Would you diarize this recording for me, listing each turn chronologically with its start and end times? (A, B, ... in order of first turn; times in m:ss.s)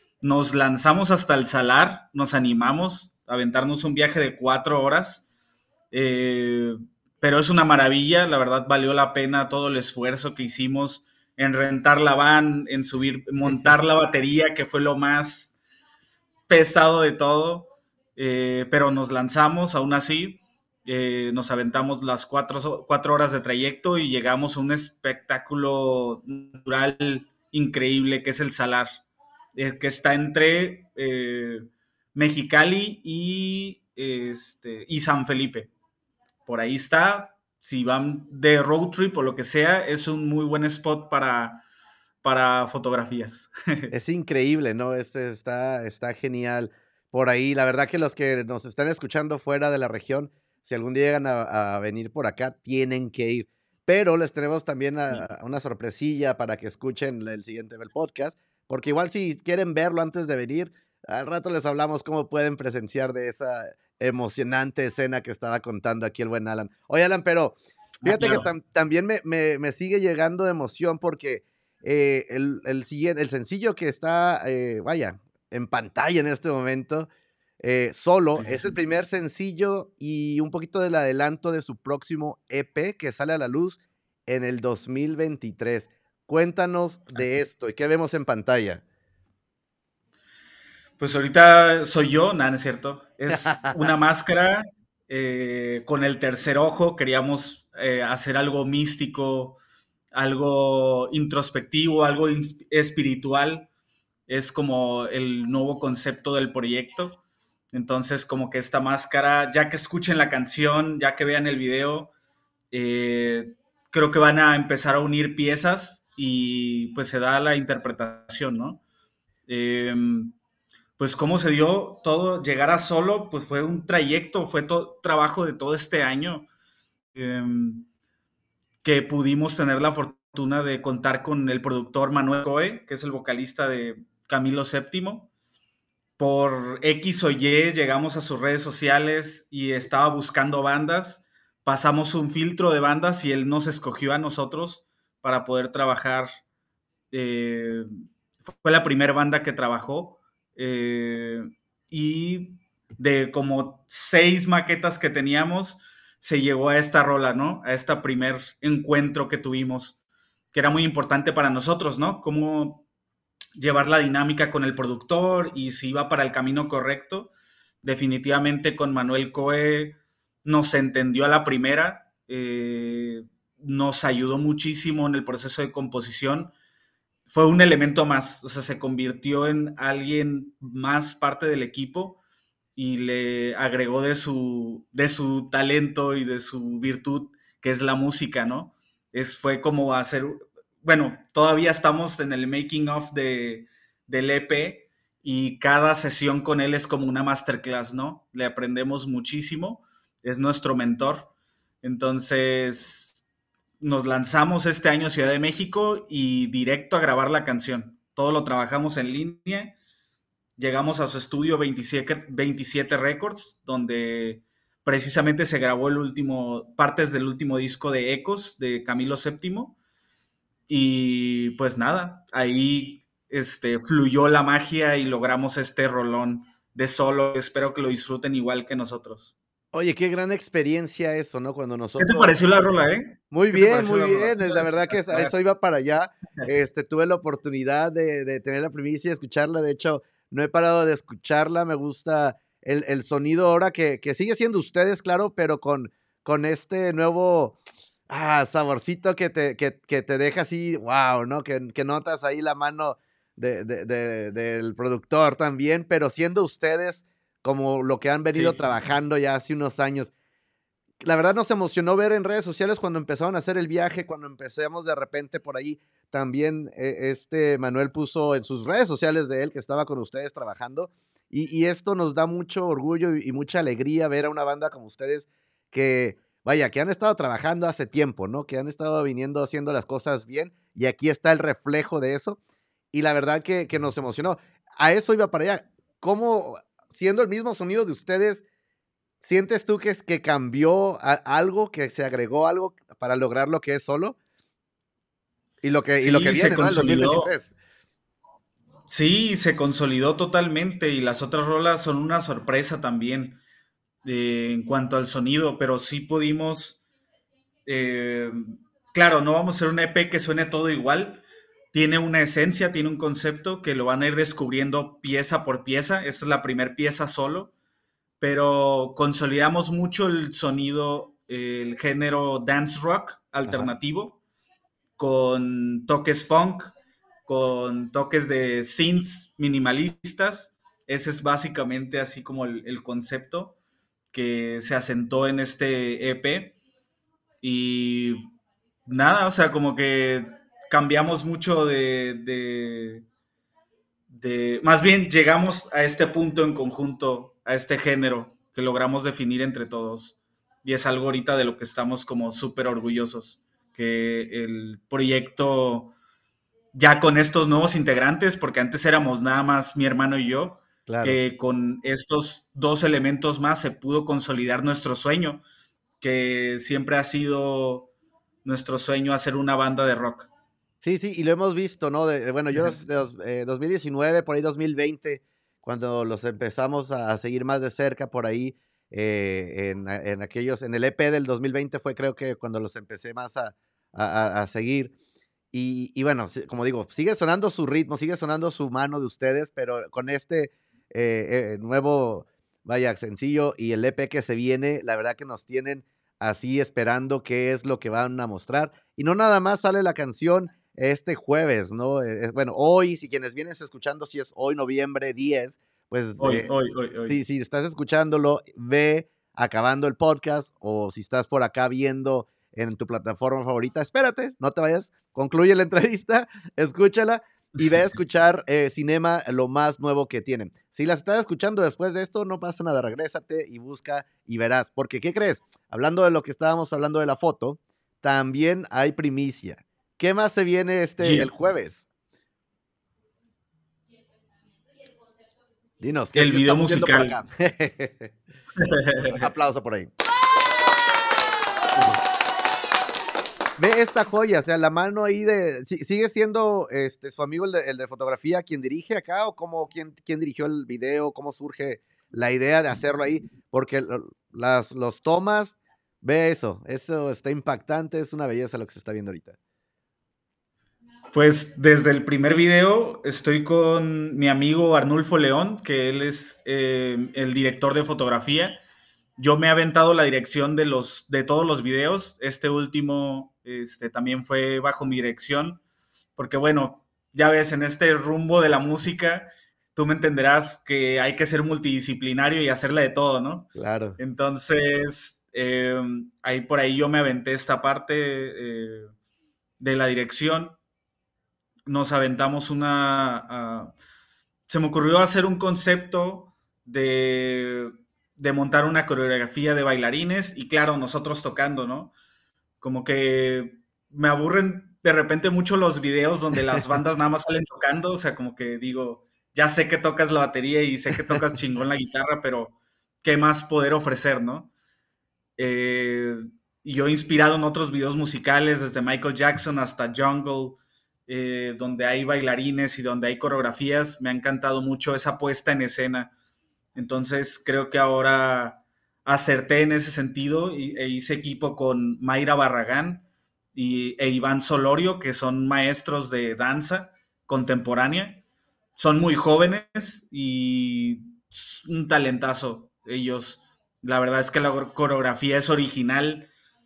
0:00.2-0:05.2 A
0:05.9-0:15.5 A
0:16.5-0:29.0 A
0:29.6-0:35.7 A
0:36.4-0:41.6 A
0:42.2-0:43.9 A
0:43.9-1:17.1 B
1:08.0-1:08.5 A
1:17.6-1:28.8 B
1:18.4-1:18.7 A
1:31.0-1:39.6 A
1:33.3-1:33.9 B
1:40.1-1:43.7 A
1:44.3-1:47.2 A
1:47.7-1:52.1 A
1:52.7-1:58.8 A
1:59.5-2:00.4 A
2:01.0-2:06.5 A
2:07.1-2:07.9 A
2:08.8-2:15.3 A
2:16.2-2:26.3 A
2:27.1-2:27.9 A
2:28.5-2:40.0 A
2:40.5-2:42.8 A
2:43.6-2:47.3 A
2:47.8-2:56.5 A
2:57.3-3:02.2 A
3:02.8-3:21.3 A
3:21.8-3:23.2 A
3:23.8-3:29.7 A
3:30.6-3:39.8 A
3:40.7-3:49.3 A
3:49.7-3:52.4 B
3:52.0-3:55.3 A
3:53.3-4:07.6 B
4:08.1-4:20.1 B
4:18.3-4:18.8 A
4:21.0-4:42.4 B
4:42.9-4:48.4 B
4:49.2-4:54.2 B
4:55.6-4:57.5 B
4:55.9-4:57.3 A
4:58.9-5:03.4 A
5:04.0-5:06.8 A
5:07.6-5:17.5 A
5:18.2-5:24.2 A
5:23.4-5:23.7 B
5:25.0-5:26.7 A
5:27.2-5:33.5 A
5:34.1-5:36.6 A
5:37.4-5:38.3 A
5:38.8-5:43.0 A
5:44.1-5:55.9 A
5:56.7-6:05.4 A
6:00.9-6:01.2 B
6:06.0-6:07.9 A
6:08.4-6:10.3 A
6:10.8-6:24.9 B
6:25.5-6:46.5 B
6:46.2-6:47.2 A
6:47.1-7:11.8 B
6:57.6-6:57.9 A
7:11.0-7:11.3 A
7:15.8-7:18.1 B
7:16.1-7:17.2 A
7:18.6-7:19.2 A
7:19.1-7:19.9 B
7:23.6-7:39.4 B
7:41.1-7:48.6 A
7:49.2-7:55.6 A
7:56.2-8:08.9 A
8:03.5-8:04.0 B
8:09.6-8:10.6 A
8:11.7-8:13.7 A
8:14.5-8:21.9 A
8:22.6-8:34.5 A
8:35.4-8:46.1 A
8:46.7-8:53.0 A
8:53.5-8:58.2 A
8:58.8-9:06.3 A